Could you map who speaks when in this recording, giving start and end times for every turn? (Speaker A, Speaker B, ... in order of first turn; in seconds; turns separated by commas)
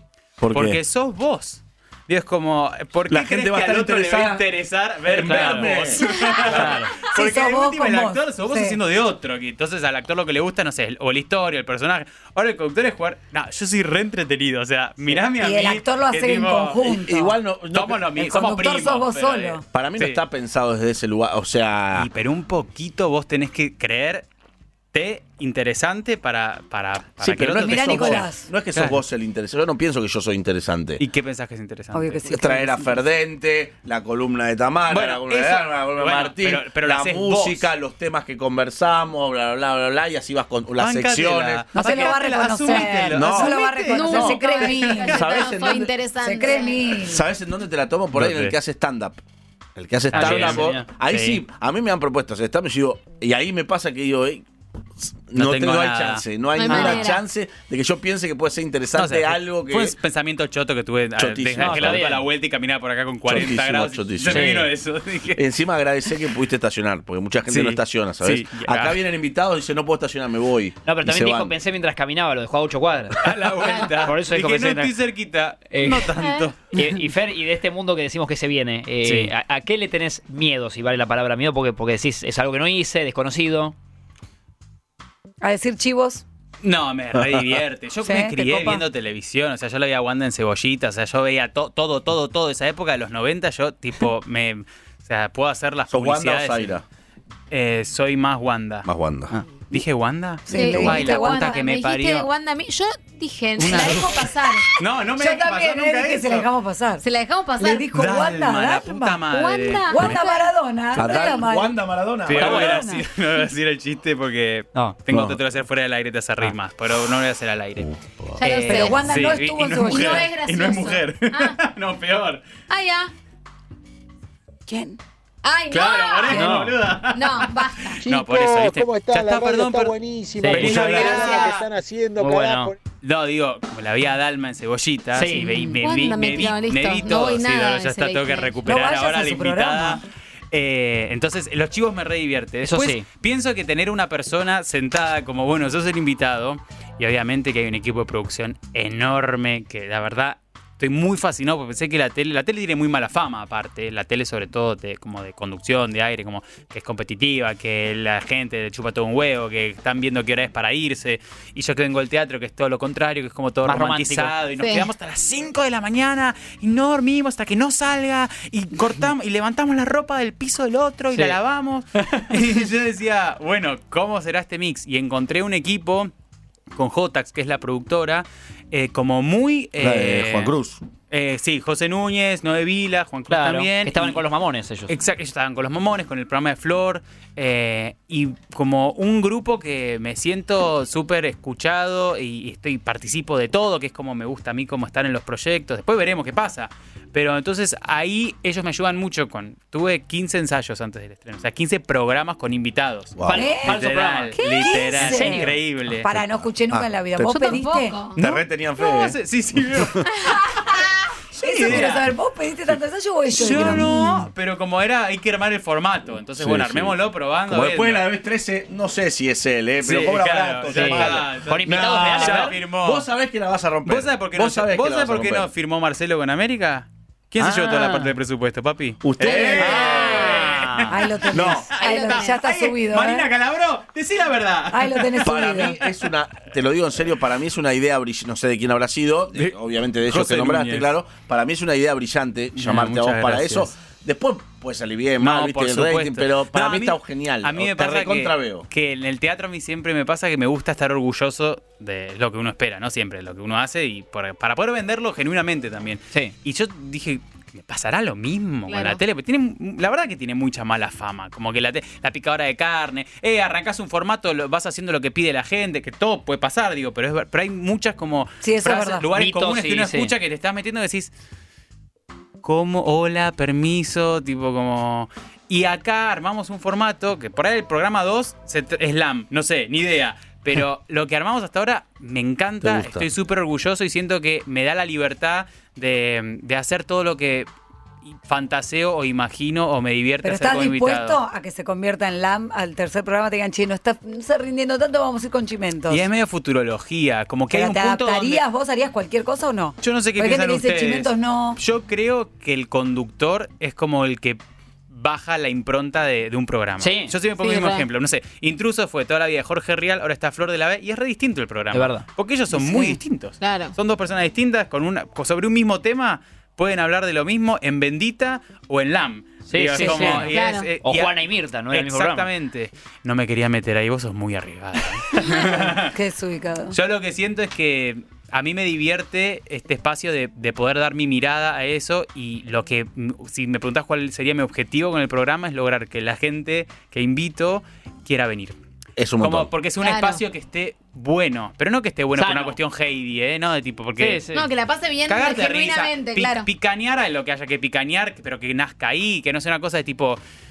Speaker A: 0.4-0.8, Speaker B: 0.5-17.0, Speaker A: 3.1-4.5, Speaker A: 5.0-6.0, Speaker C: 5.2-5.7, Speaker D: 6.2-8.8, Speaker C: 6.5-7.0, Speaker D: 15.1-17.4, Speaker A: 17.0-18.1, Speaker B: 17.7-20.2, Speaker D: 18.1-19.6, Speaker A: 19.7-22.1, Speaker B: 21.9-24.3, Speaker B: 24.9-29.0, Speaker A: 27.2-31.0, Speaker D: 27.6-28.5, Speaker B: 31.0-32.2, Speaker D: 31.9-33.0, Speaker A: 32.3-41.6, Speaker B: 34.9-37.7, Speaker B: 40.8-45.1, Speaker D: 41.7-45.5, Speaker A: 42.7-44.4, Speaker E: 43.9-47.0, Speaker A: 45.0-45.9, Speaker D: 46.2-47.2, Speaker A: 47.0-49.2, Speaker B: 48.1-48.5, Speaker A: 49.8-54.5, Speaker B: 50.1-51.4, Speaker C: 50.1-50.9, Speaker A: 55.0-60.0, Speaker B: 55.3-56.9, Speaker E: 56.5-57.2, Speaker B: 58.9-65.4, Speaker A: 61.2-62.0, Speaker C: 61.6-62.2, Speaker A: 63.2-64.7, Speaker C: 64.3-64.7, Speaker A: 65.3-71.5, Speaker B: 67.5-69.0, Speaker C: 70.8-74.9, Speaker B: 73.2-76.9, Speaker C: 75.7-76.1, Speaker E: 76.2-76.5, Speaker C: 76.7-83.7, Speaker B: 79.0-79.3, Speaker D: 85.4-86.2, Speaker B: 86.6-96.8, Speaker A: 87.1-87.6, Speaker D: 88.0-88.8, Speaker A: 95.9-96.8, Speaker B: 97.5-102.3, Speaker A: 98.8-99.3, Speaker D: 100.5-101.6, Speaker E: 100.5-104.7, Speaker B: 103.6-104.2, Speaker D: 103.6-104.6, Speaker B: 104.8-106.5, Speaker D: 105.2-107.0, Speaker E: 107.0-107.9, Speaker D: 107.6-109.2, Speaker B: 107.9-110.2, Speaker E: 109.3-110.5, Speaker D: 109.9-111.8, Speaker A: 110.9-112.8, Speaker E: 111.0-111.4, Speaker B: 112.3-122.4, Speaker C: 112.4-112.8, Speaker D: 112.5-113.0, Speaker A: 115.1-115.4, Speaker A: 117.8-118.4, Speaker E: 118.4-121.6, Speaker D: 118.5-120.3, Speaker E: 122.7-123.1, Speaker D: 124.7-125.0, Speaker E: 125.4-126.5, Speaker B: 125.7-131.7, Speaker C: 126.3-126.8, Speaker E: 127.1-128.0, Speaker F: 128.0-132.8, Speaker C: 130.4-130.8, Speaker E: 130.9-131.5, Speaker C: 132.2-132.7, Speaker B: 133.0-176.1, Speaker C: 135.1-135.8, Speaker E: 135.8-138.6, Speaker D: 138.6-140.0, Speaker C: 142.6-143.1, Speaker C: 163.6-164.4, Speaker E: 164.6-164.9, Speaker C: 171.1-171.4, Speaker B: 176.7-180.5, Speaker A: 179.8-180.8, Speaker B: 181.1-184.2, Speaker C: 183.3-184.9, Speaker B: 184.9-206.1, Speaker A: 203.2-203.5, Speaker C: 203.2-205.5, Speaker D: 203.3-203.8, Speaker D: 204.4-207.9, Speaker A: 206.1-207.5, Speaker E: 207.2-208.2, Speaker A: 208.2-210.1, Speaker B: 208.2-210.3, Speaker B: 211.4-212.1, Speaker D: 211.4-214.2, Speaker B: 213.3-218.0, Speaker A: 213.4-213.9, Speaker A: 216.3-225.5, Speaker B: 219.8-223.1, Speaker C: 220.7-222.6, Speaker B: 223.8-235.7, Speaker C: 227.4-228.1, Speaker A: 229.0-230.4, Speaker E: 229.2-230.6, Speaker C: 229.6-230.9, Speaker D: 230.9-233.3, Speaker A: 231.3-231.7, Speaker E: 231.7-232.4, Speaker D: 234.7-235.8, Speaker A: 235.2-248.7, Speaker B: 240.0-240.9, Speaker B: 242.5-243.7, Speaker B: 245.2-271.1, Speaker E: 258.7-259.0, Speaker D: 268.4-269.1, Speaker C: 269.1-270.1, Speaker B: 272.4-287.5, Speaker A: 282.6-283.1, Speaker B: 288.0-291.2, Speaker D: 290.2-296.1, Speaker B: 295.9-298.4, Speaker D: 297.5-301.6, Speaker B: 299.8-304.4, Speaker B: 304.9-325.9, Speaker C: 306.8-307.1, Speaker E: 307.4-307.9, Speaker C: 311.7-312.1, Speaker E: 312.6-313.7, Speaker C: 319.5-322.3, Speaker D: 319.8-320.2, Speaker E: 320.2-320.7, Speaker D: 325.2-326.8, Speaker B: 326.7-338.6, Speaker A: 339.0-339.5, Speaker B: 339.2-344.2, Speaker E: 339.8-340.2, Speaker C: 342.1-342.6, Speaker C: 344.0-344.5, Speaker E: 344.3-346.5, Speaker B: 345.1-350.2